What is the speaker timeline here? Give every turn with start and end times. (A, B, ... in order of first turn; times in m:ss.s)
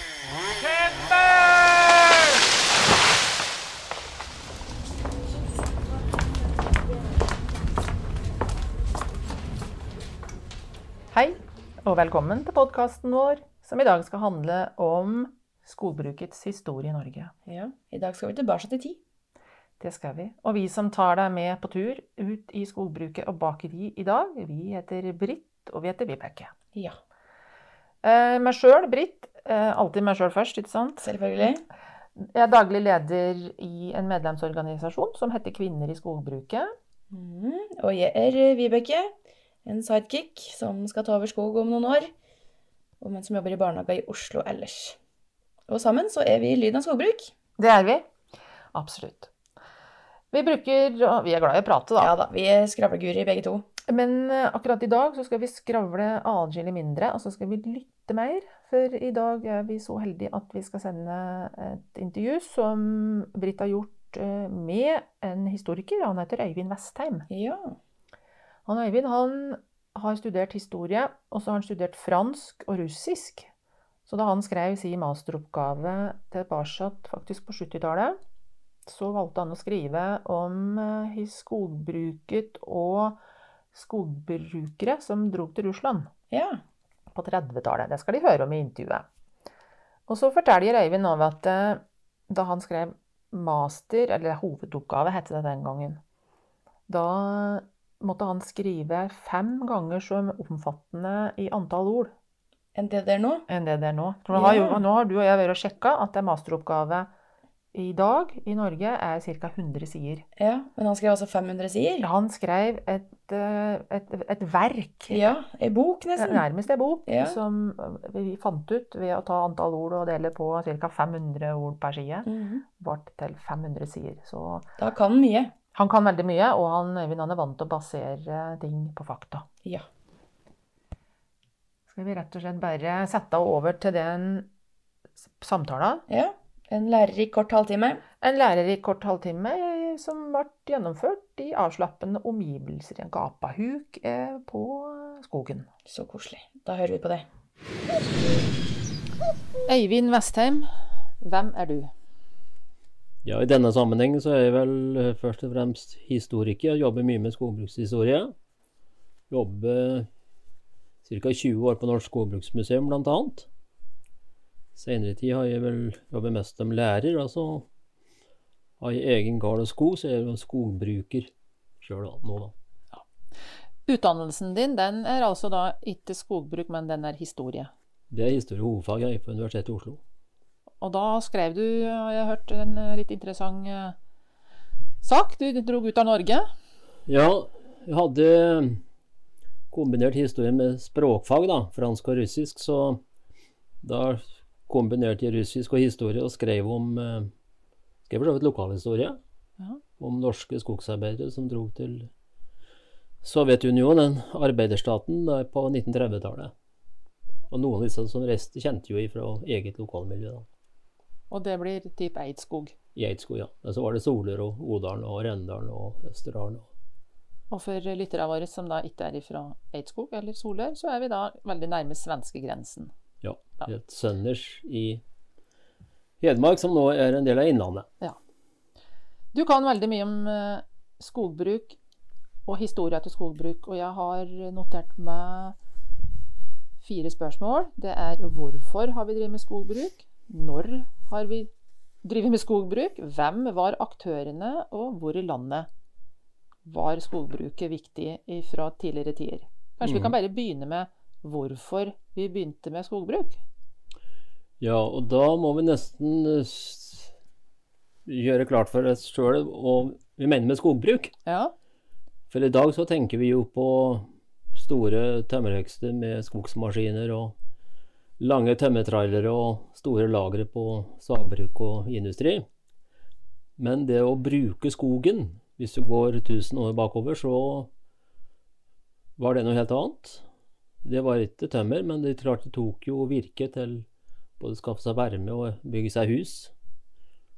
0:11.1-0:17.3 A
0:17.5-0:19.0 B
0:19.8-0:26.5 A
0:28.0-0:31.1 A
0:31.0-0:31.6 B
0:32.2-0:36.7 A
0:37.1-0:42.1 B
0:43.0-0:45.0 B
0:45.7-0:47.3 B
0:47.6-0:48.1 A
0:48.7-0:49.3 A
0:50.3-0:52.2 A
0:52.0-0:53.7 B
0:53.9-1:07.3 A
1:07.3-1:07.8 B
1:08.7-1:13.5 A
1:14.1-1:18.2 A
1:18.9-1:23.2 A
1:23.7-1:26.1 A
1:26.3-1:26.6 B
1:27.1-1:29.1 A
1:30.1-1:36.0 A
1:36.9-1:42.1 A
1:42.8-1:43.5 B
1:43.5-1:47.1 A
1:44.3-1:44.8 B
1:47.7-1:50.2 A
1:50.4-1:52.1 B
1:52.0-1:55.3 A
1:55.1-1:56.5 B
1:56.2-2:02.3 A
1:57.1-1:57.4 B
2:02.3-2:02.6 B
2:02.8-2:04.7 A
2:04.8-2:05.5 B
2:05.8-2:09.5 A
2:11.9-2:14.5 A
2:15.4-2:16.0 A
2:16.1-2:18.0 B
2:18.2-2:25.7 A
2:25.9-2:27.3 B
2:29.7-2:31.9 A
2:33.2-2:38.3 C
2:39.3-2:40.1 C
2:41.0-2:43.5 C
2:44.8-2:47.7 C
2:48.8-2:52.5 C
2:53.9-2:57.7 A
2:58.1-3:00.0 C
3:00.8-3:04.0 A
3:05.0-3:06.5 A
3:07.1-3:08.8 C
3:09.7-3:13.0 C
3:13.8-3:17.3 C
3:18.1-3:19.2 C
3:20.0-3:22.1 C
3:23.2-3:26.5 C
3:27.5-3:30.5 C
3:31.3-3:32.8 A
3:33.0-3:36.7 C
3:37.5-3:42.9 A
3:43.2-3:45.0 C
3:46.2-3:47.9 C
3:49.3-3:51.8 A
3:52.4-3:55.6 A
3:56.8-4:01.5 A
4:02.0-4:05.7 A
4:06.7-4:13.4 A
4:09.8-4:10.1 C
4:14.6-4:17.1 C
4:18.1-4:21.1 C
4:21.3-4:21.5 A
4:22.3-4:27.4 C
4:28.2-4:32.5 C
4:33.6-4:37.7 C
4:39.2-4:40.2 C
4:40.8-4:43.9 C
4:44.4-4:46.5 C